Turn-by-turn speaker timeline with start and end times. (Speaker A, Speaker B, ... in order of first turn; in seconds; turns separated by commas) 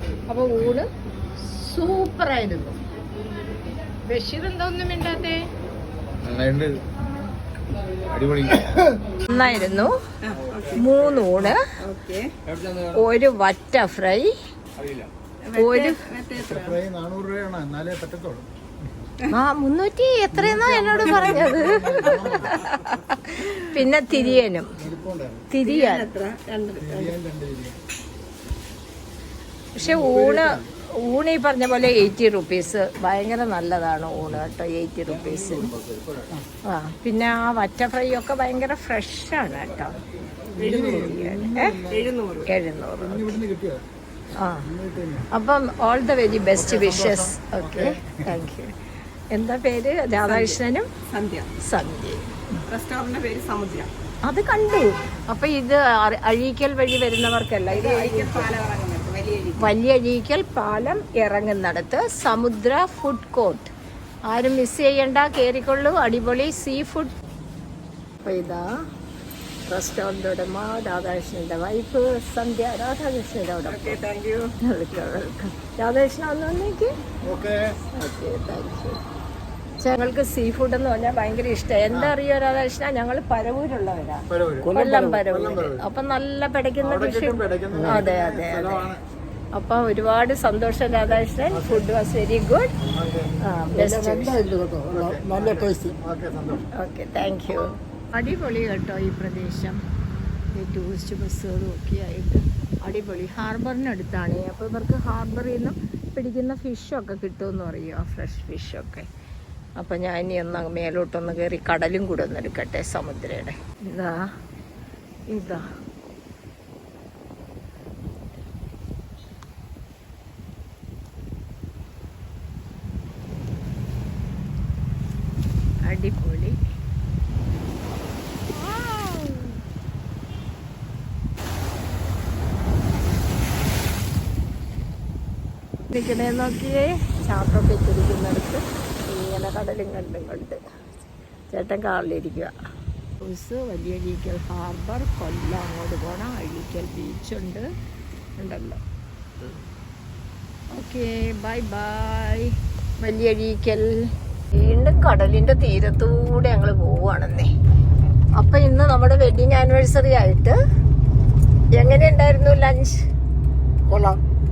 Speaker A: 0.3-2.8, Speaker A: 4.0-5.5, Speaker B: 6.2-6.9, Speaker B: 8.1-8.8, Speaker A: 9.2-10.0, Speaker C: 10.2-10.8, Speaker B: 10.3-10.8, Speaker A: 10.7-11.7, Speaker C: 11.8-12.3, Speaker B: 12.4-13.1, Speaker A: 12.9-14.3, Speaker B: 14.8-15.1, Speaker C: 15.4-16.8, Speaker A: 15.5-16.0, Speaker D: 16.3-18.9, Speaker A: 19.3-24.8, Speaker D: 20.3-22.7, Speaker D: 24.7-25.5, Speaker A: 25.5-26.1, Speaker C: 25.6-27.1, Speaker D: 26.8-27.8, Speaker A: 29.8-35.7, Speaker D: 29.8-30.7, Speaker B: 35.0-36.4, Speaker A: 36.6-40.0, Speaker D: 40.5-42.2, Speaker C: 40.6-41.2, Speaker A: 40.8-41.7, Speaker C: 41.9-42.5, Speaker A: 42.5-43.4, Speaker D: 43.0-43.8, Speaker A: 44.4-44.6, Speaker D: 44.6-45.3, Speaker A: 45.3-48.7, Speaker D: 46.5-48.4, Speaker A: 49.3-50.9, Speaker C: 50.2-51.5, Speaker A: 51.6-52.6, Speaker C: 52.6-53.9, Speaker A: 54.2-58.5, Speaker C: 57.7-59.7, Speaker A: 59.6-63.7, Speaker A: 64.3-67.1, Speaker A: 68.2-68.7, Speaker A: 69.7-74.0, Speaker C: 73.7-74.5, Speaker A: 74.6-76.9, Speaker D: 77.2-77.8, Speaker A: 77.9-79.0, Speaker A: 79.8-88.9, Speaker D: 81.9-82.2, Speaker D: 84.3-85.8, Speaker E: 84.8-85.1, Speaker D: 86.8-89.0, Speaker A: 89.5-92.7, Speaker D: 91.5-91.9, Speaker D: 92.9-93.4, Speaker A: 93.4-94.4, Speaker E: 93.7-95.9, Speaker D: 94.9-96.7, Speaker A: 96.8-99.8, Speaker A: 100.5-109.1, Speaker A: 109.8-114.3, Speaker A: 115.3-115.7, Speaker A: 125.8-126.6, Speaker A: 128.5-129.6, Speaker A: 135.9-140.6, Speaker A: 141.5-142.5, Speaker A: 143.2-147.7, Speaker A: 148.4-148.8, Speaker A: 150.7-157.5, Speaker A: 158.3-160.6, Speaker A: 161.7-163.1, Speaker E: 163.9-164.2